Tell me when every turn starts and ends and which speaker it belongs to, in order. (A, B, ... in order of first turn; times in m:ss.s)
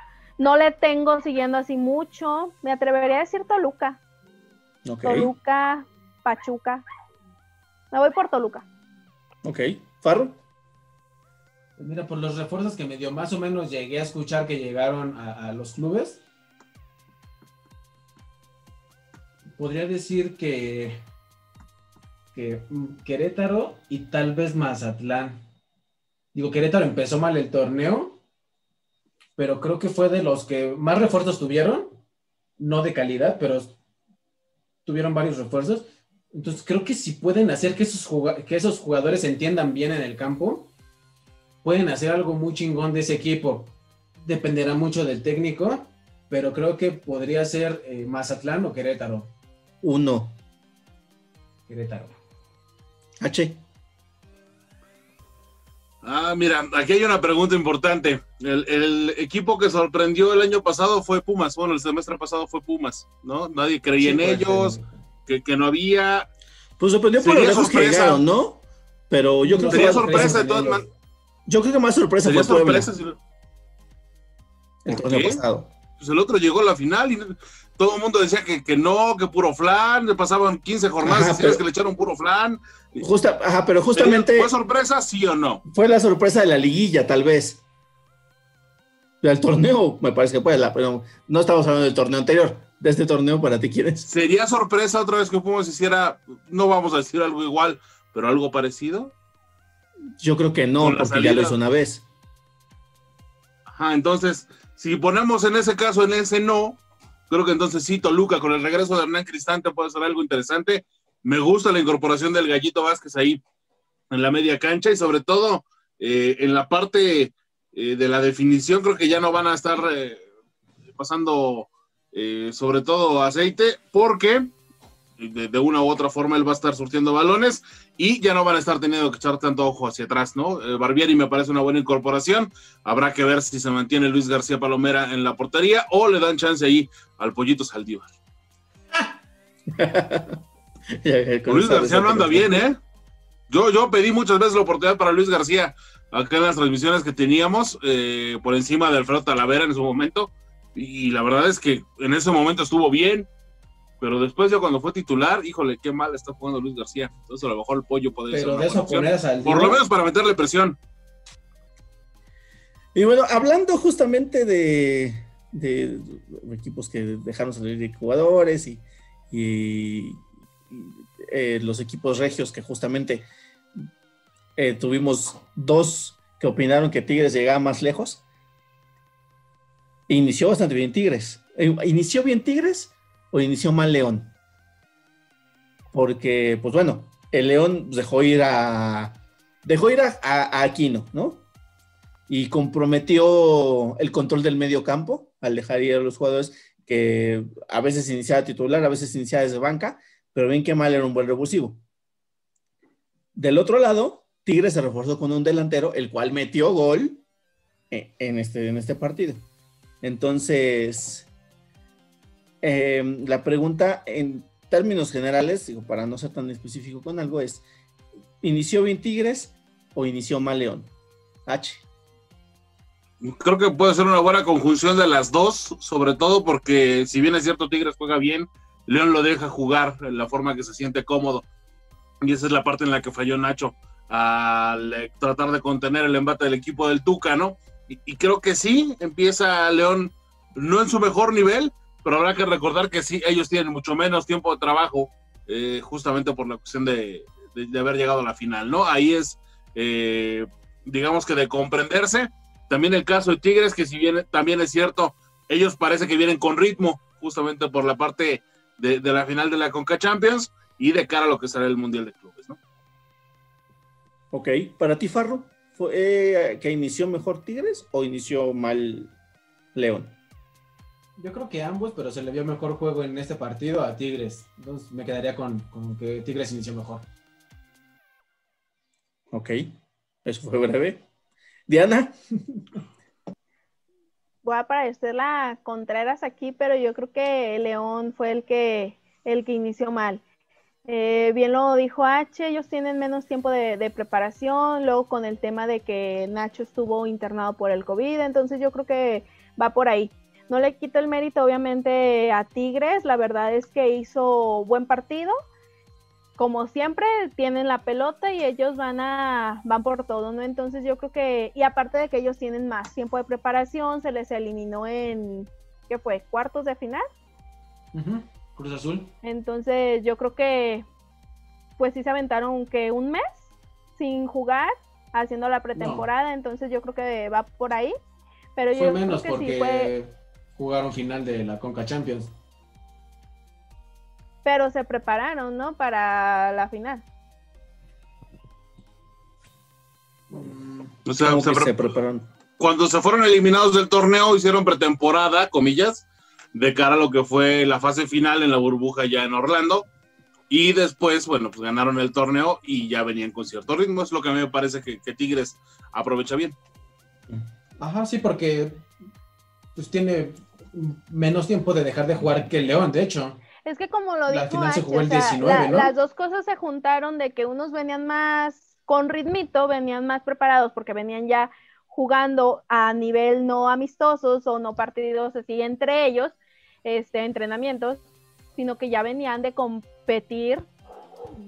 0:00.4-0:04.0 A
0:04.8-0:05.3 B
0:05.0-0:06.8 A
0:07.9-0:08.6 A
0:09.4-0:10.4 B
0:11.8-0:16.2 C
0:19.5-0:21.0 C
0:22.3-0:25.4 C
0:26.3-0:28.2 C
0:29.4-0:32.0 C
0:32.6-0:33.8 C
0:34.8-0:40.7 C
0:41.6-0:49.3 C
0:49.8-0:50.4 B
0:51.7-0:52.1 C
0:53.2-0:53.6 B
0:56.0-1:06.3 D
1:04.0-1:05.0 C
1:06.8-1:10.5 B
1:07.2-1:08.2 D
1:09.4-1:10.9 C
1:09.7-1:10.8 D
1:11.5-1:12.9 B
1:12.2-1:13.2 D
1:14.8-1:15.7 B
1:14.9-1:15.4 D
1:16.0-1:23.0 D
1:21.0-1:21.6 B
1:23.0-1:24.5 B
1:23.9-1:25.6 D
1:25.7-1:27.6 B
1:29.2-1:34.1 B
1:34.0-1:39.1 D
1:40.2-1:42.0 B
1:40.8-1:41.6 D
1:43.7-1:53.4 D
1:54.1-2:00.2 D
2:00.9-2:04.5 D
2:05.2-2:18.1 D
2:19.7-2:20.4 B
2:21.0-2:22.6 B
2:21.5-2:22.8 D
2:23.5-2:33.3 D
2:34.0-2:40.8 D
2:38.3-2:39.8 C
2:42.9-2:53.3 B
2:54.6-2:58.2 B
3:00.1-3:04.3 B
3:05.9-3:11.4 B
3:12.3-3:21.8 B
3:23.4-3:27.2 B
3:27.9-3:29.4 B
3:30.0-3:31.3 B
3:32.6-3:37.6 B
3:38.4-3:40.9 B
3:41.4-3:41.8 B
3:43.2-3:51.4 D
3:52.2-4:22.6 D
4:24.3-4:29.1 B
4:29.7-4:30.1 B
4:31.2-4:37.0 C
4:39.3-4:39.7 B
4:40.2-4:41.0 B
4:41.7-4:42.6 B
4:44.4-4:50.2 A
4:50.8-5:05.3 A
5:06.4-5:17.0 A
5:17.9-5:19.1 C
5:19.2-5:20.8 A
5:21.8-5:27.9 A
5:25.7-5:26.1 C
5:28.6-5:29.9 A
5:28.7-5:32.3 C
5:34.4-5:37.0 A
5:40.3-5:41.0 C
5:41.0-5:41.9 D
5:41.2-5:42.3 B
5:42.6-5:49.9 D
5:50.5-5:56.6 D
5:57.8-5:58.8 C
5:59.8-6:03.4 C
6:03.6-6:18.0 A
6:04.3-6:05.9 C
6:18.6-6:20.6 A